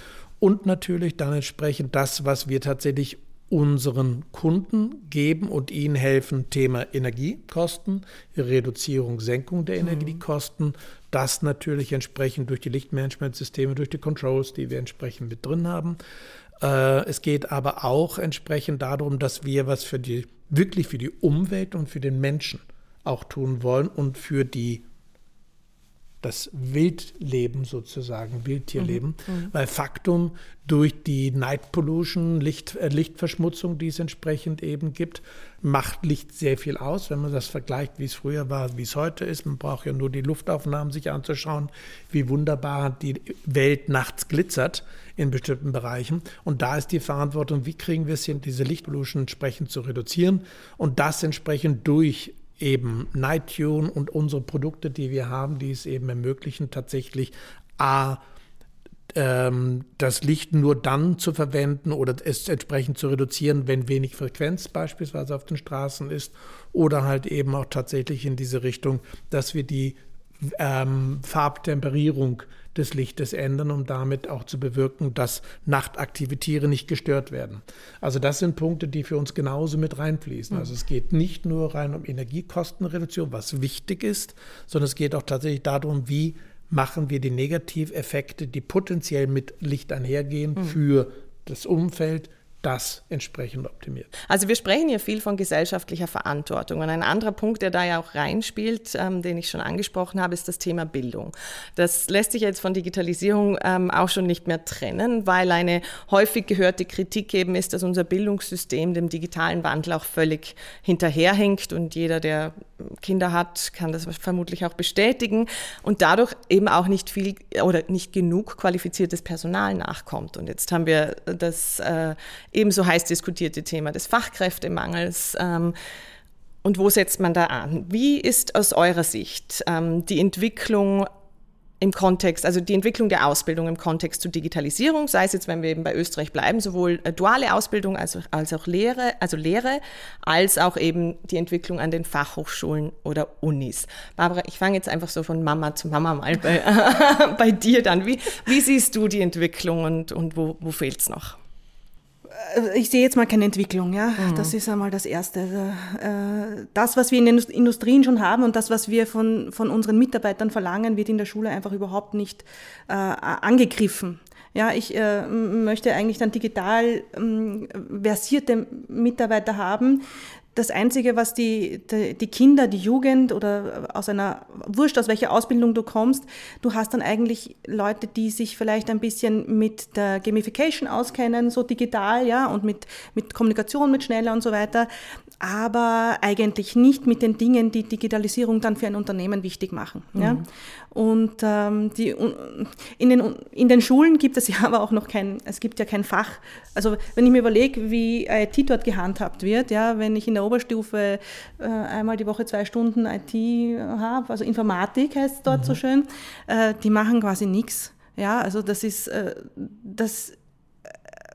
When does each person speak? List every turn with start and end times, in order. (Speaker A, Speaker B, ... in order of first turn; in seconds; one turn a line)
Speaker A: 0.4-16.0
Speaker B: 9.9-10.1
Speaker A: 16.6-24.8
Speaker A: 26.2-58.2
Speaker B: 28.8-29.5
Speaker A: 59.1-94.1
Speaker B: 94.3-125.7
Speaker B: 126.6-131.1
Speaker B: 131.8-151.4
Speaker C: 152.3-170.0
Speaker B: 154.2-154.5
Speaker C: 170.5-184.9
Speaker C: 185.4-210.3
Speaker B: 190.1-190.4